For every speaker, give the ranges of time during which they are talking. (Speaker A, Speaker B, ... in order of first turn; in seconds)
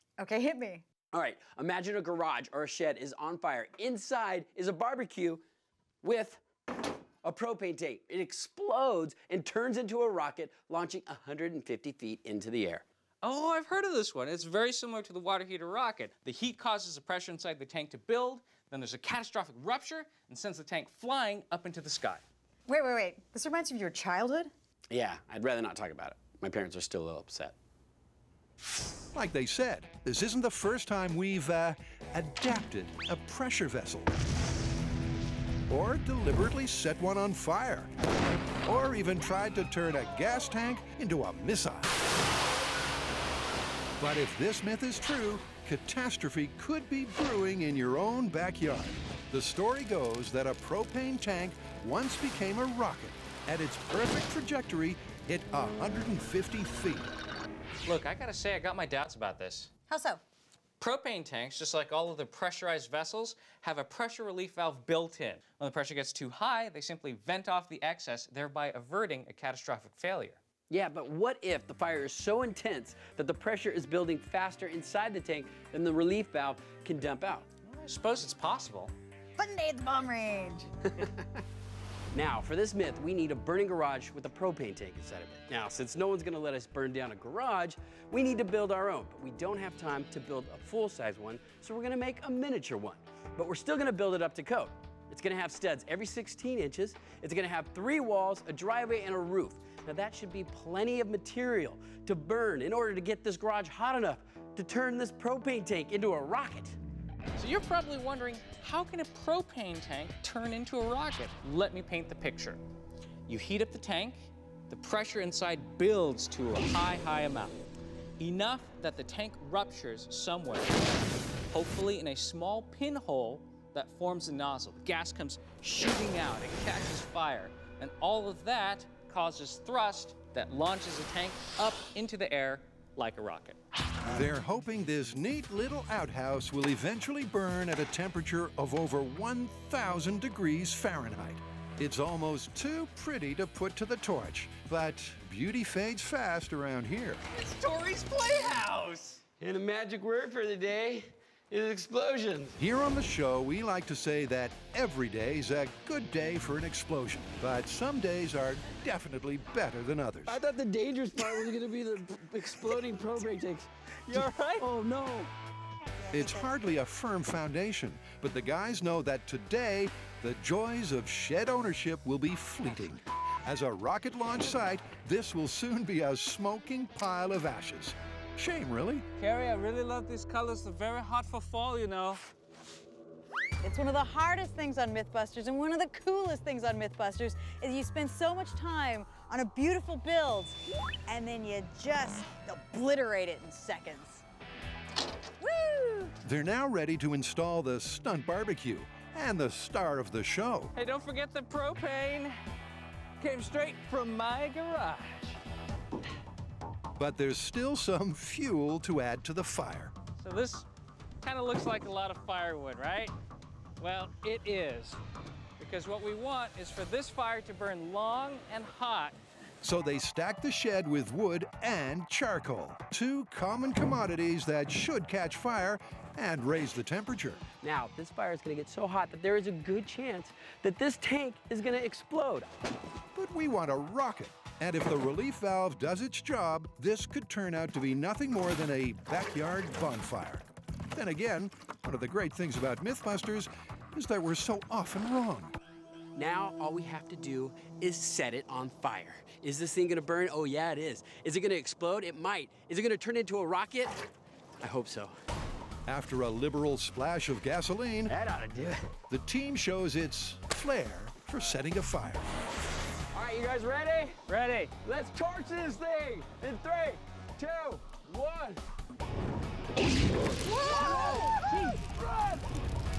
Speaker A: 0.2-0.8, 22.7-24.5, 59.9-60.2, 79.4-80.7, 183.6-194.2, 195.4-196.1
Speaker B: 1.1-5.4, 6.0-6.4, 7.2-12.8, 24.9-27.6, 70.7-77.5, 81.0-81.3, 82.1-106.8, 149.4-152.6, 160.3-163.7, 164.6-165.3, 227.6-232.5, 246.2-254.0, 254.6-255.2, 258.1-258.9, 263.1-264.3, 264.8-268.6, 270.6-272.5
Speaker C: 13.2-22.2, 57.9-59.7, 60.8-70.4, 77.7-78.9, 107.4-112.6, 113.3-117.6, 118.2-133.6, 147.3-149.2, 164.1-164.7, 179.2-182.2, 200.8-202.3, 203.2-205.4, 210.2-210.7, 211.2-213.1, 213.8-215.0, 215.6-219.2, 264.3-264.7, 270.6-271.3
Speaker D: 29.1-34.1, 35.7-37.9, 38.6-41.9, 44.0-57.1, 134.1-147.2, 152.6-160.4, 166.1-179.1, 196.2-200.7, 207.0-209.9, 219.6-227.4, 233.2-245.6, 255.9-258.1, 259.1-262.3